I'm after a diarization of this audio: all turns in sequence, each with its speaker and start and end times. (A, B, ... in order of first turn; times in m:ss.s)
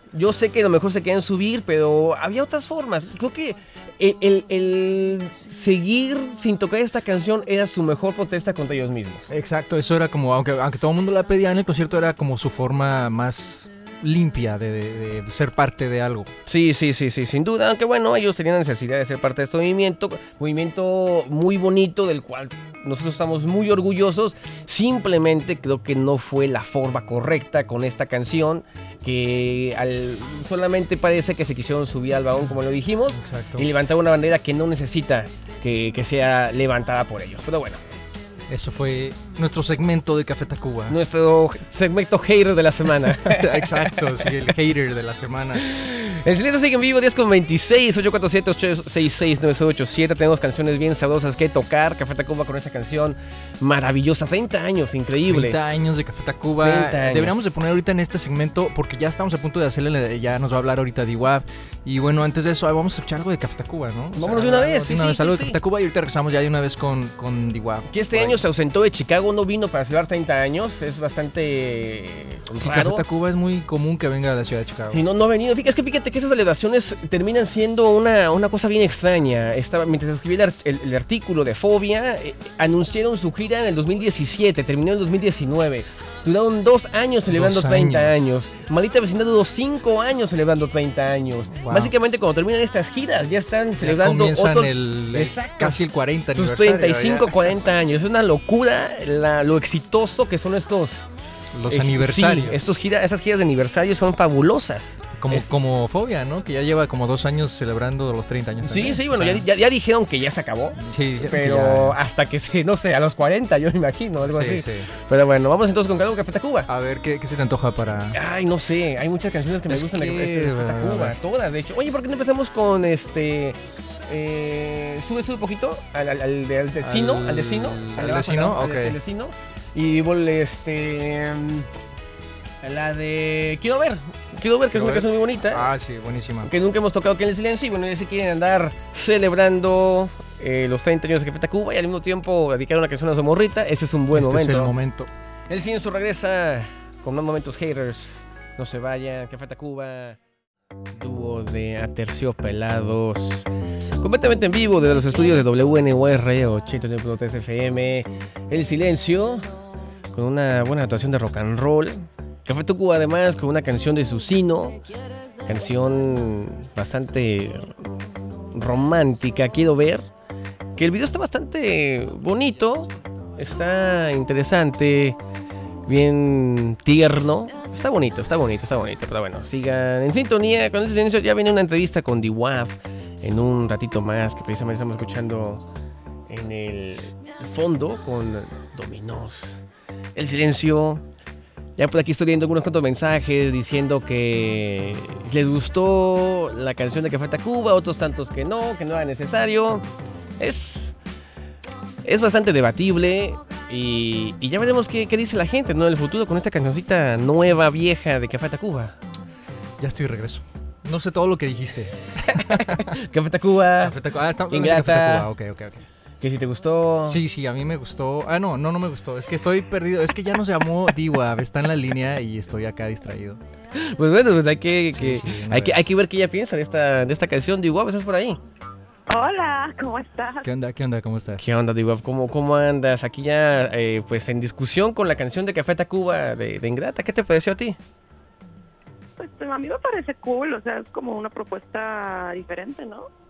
0:00.1-0:09.3 A
0:09.3-0:16.3 B
0:16.4-0:37.8 A
0:33.1-0:33.7 B
0:38.5-0:41.0 B
0:40.9-0:44.5 A
0:43.1-0:45.6 B
0:45.6-0:55.6 A
0:55.3-1:08.4 B
0:56.6-0:57.3 A
1:04.2-1:05.6 A
1:07.9-1:13.0 A
1:12.6-1:15.0 B
1:14.9-1:35.8 A
1:27.3-1:28.3 B
1:31.5-1:31.9 B
1:33.8-1:37.5 B
1:36.3-1:41.1 A
1:41.5-1:42.6 B
1:41.7-1:45.5 A
1:45.2-1:49.4 B
1:48.6-1:56.7 A
1:50.8-1:52.0 B
1:54.2-1:54.9 B
1:56.7-1:58.2 B
1:58.1-2:11.7 A
1:59.7-2:01.2 B
2:06.8-2:09.0 B
2:12.6-2:15.7 A
2:14.7-2:16.5 B
2:16.4-2:24.7 A
2:24.1-2:25.1 B
2:25.5-2:30.2 A
2:30.9-2:33.5 A
2:34.0-2:39.5 A
2:40.1-2:44.8 A
2:45.4-2:47.9 A
2:48.5-2:50.0 A
2:50.8-2:55.2 A
2:55.9-3:05.6 A
3:06.3-3:09.6 A
3:10.2-3:11.0 A
3:11.8-3:19.8 A
3:20.4-3:20.9 A
3:22.0-3:28.9 A
3:29.8-3:33.0 B
3:32.3-3:34.0 A
3:33.8-3:35.8 B
3:34.5-3:35.3 A
3:36.2-3:37.2 A
3:37.0-3:43.4 B
3:43.7-3:48.4 A
3:44.9-3:45.9 B
3:49.1-3:50.5 C
3:50.4-3:51.4 B
3:51.4-3:57.8 A
3:59.2-4:03.1 C